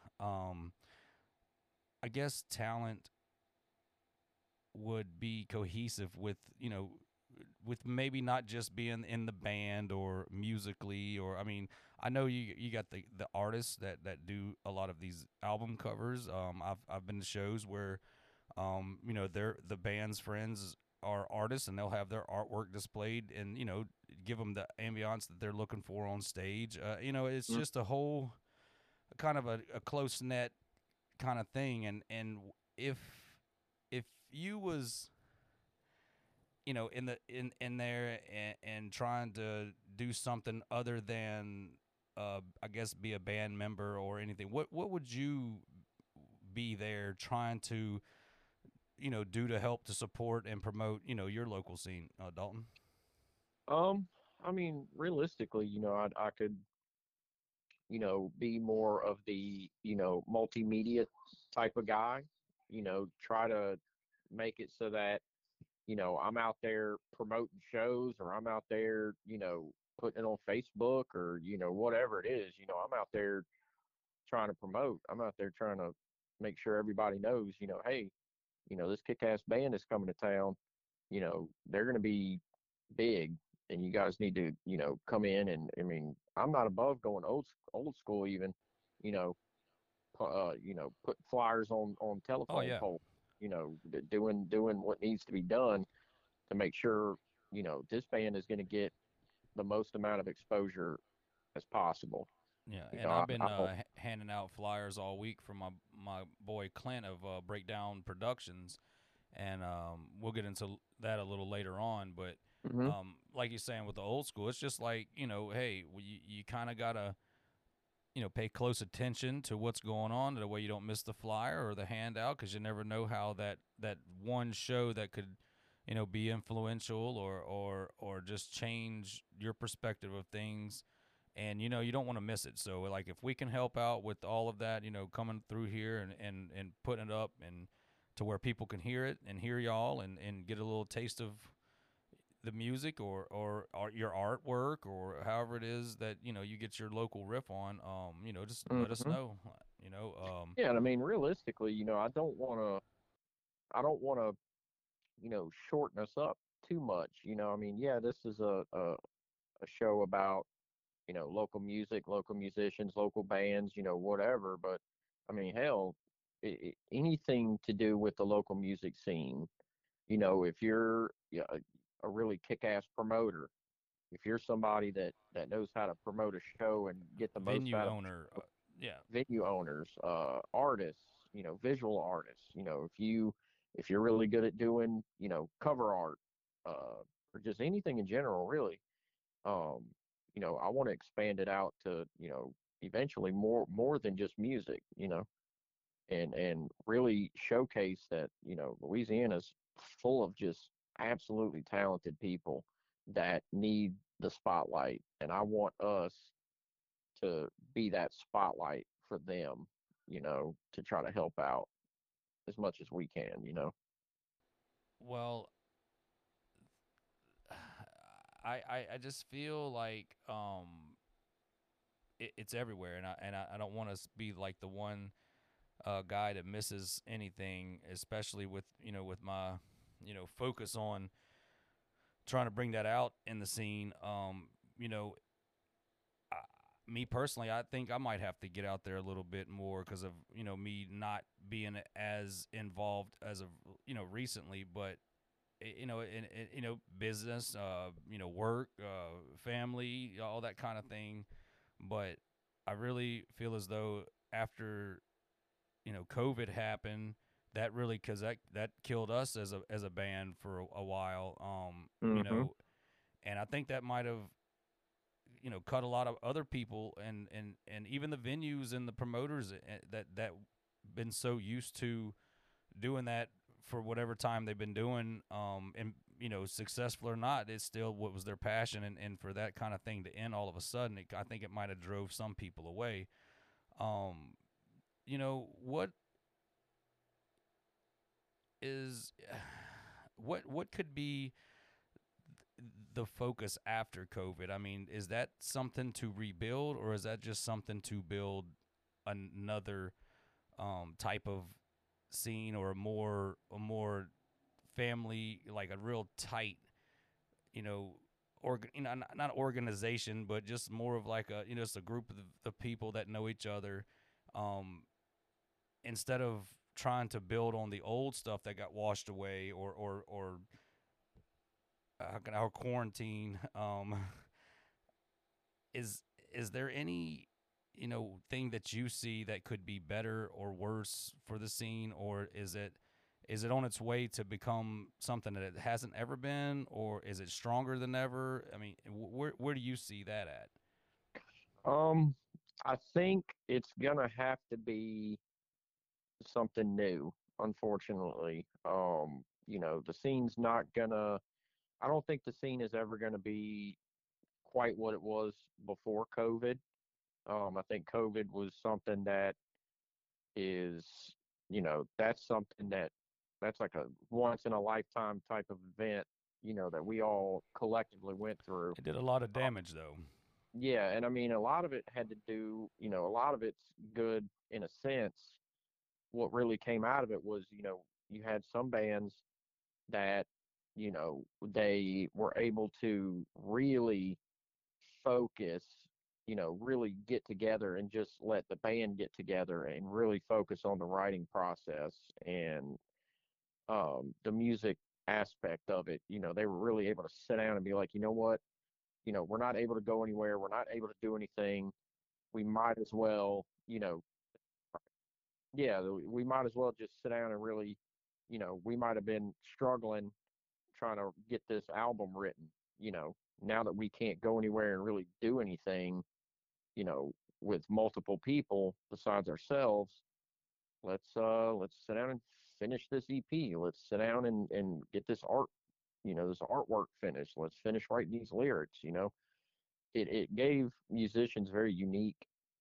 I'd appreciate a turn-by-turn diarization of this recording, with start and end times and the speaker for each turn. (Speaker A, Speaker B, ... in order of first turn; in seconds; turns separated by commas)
Speaker A: 0.2-0.7, Speaker A: 2.0-3.1, Speaker A: 4.7-18.0, Speaker A: 18.6-28.4, Speaker A: 29.1-30.6, Speaker A: 31.2-35.1, Speaker A: 36.7-48.0, Speaker A: 49.0-52.7, Speaker B: 53.7-56.6, Speaker B: 57.9-63.8, Speaker B: 64.3-65.2, Speaker B: 65.9-73.5, Speaker B: 74.3-78.1, Speaker B: 78.7-80.6, Speaker B: 81.1-82.4, Speaker B: 82.9-89.4, Speaker B: 90.1-95.9, Speaker A: 92.5-92.9, Speaker B: 96.5-98.9, Speaker B: 99.5-101.0, Speaker B: 101.5-102.3, Speaker A: 102.7-108.8, Speaker B: 102.9-103.7, Speaker A: 109.3-117.2, Speaker B: 112.7-113.0, Speaker A: 118.2-130.8, Speaker A: 131.3-141.6, Speaker A: 142.4-150.6, Speaker B: 148.7-149.2, Speaker B: 150.6-152.8, Speaker B: 153.7-154.4, Speaker B: 155.2-159.0, Speaker B: 159.6-160.5, Speaker B: 161.1-169.5, Speaker B: 170.1-173.5, Speaker B: 174.1-178.0, Speaker A: 177.4-179.1, Speaker B: 179.1-188.8, Speaker B: 189.4-195.3, Speaker B: 196.1-206.3, Speaker B: 207.2-211.7, Speaker B: 212.5-213.7, Speaker A: 215.0-215.5, Speaker A: 217.5-221.0, Speaker A: 222.2-225.1, Speaker A: 225.8-231.1, Speaker A: 232.3-235.2, Speaker A: 236.3-245.0, Speaker A: 245.6-251.3, Speaker A: 251.8-255.0, Speaker A: 255.8-262.5, Speaker B: 262.0-262.5, Speaker A: 263.2-264.4, Speaker A: 265.4-272.2, Speaker A: 272.8-283.1, Speaker A: 283.8-284.4, Speaker A: 285.1-285.9, Speaker A: 288.6-291.3, Speaker A: 292.6-298.5, Speaker A: 299.1-299.9, Speaker A: 300.6-304.1, Speaker A: 304.7-306.6, Speaker A: 307.5-314.9, Speaker A: 315.8-320.5, Speaker A: 322.0-324.3, Speaker A: 325.7-340.5, Speaker B: 341.2-345.2, Speaker B: 346.2-351.2, Speaker B: 351.8-353.8, Speaker B: 354.4-356.6, Speaker B: 357.3-359.4, Speaker B: 360.4-368.8, Speaker A: 368.8-370.0, Speaker B: 370.6-375.4, Speaker B: 376.1-379.2, Speaker B: 379.9-384.2, Speaker B: 384.9-392.8, Speaker B: 393.7-398.4, Speaker B: 399.1-401.7, Speaker B: 402.3-404.0, Speaker B: 405.5-410.1, Speaker B: 410.7-416.0, Speaker B: 416.8-420.0, Speaker B: 420.8-425.5, Speaker B: 426.0-429.1, Speaker B: 429.9-432.3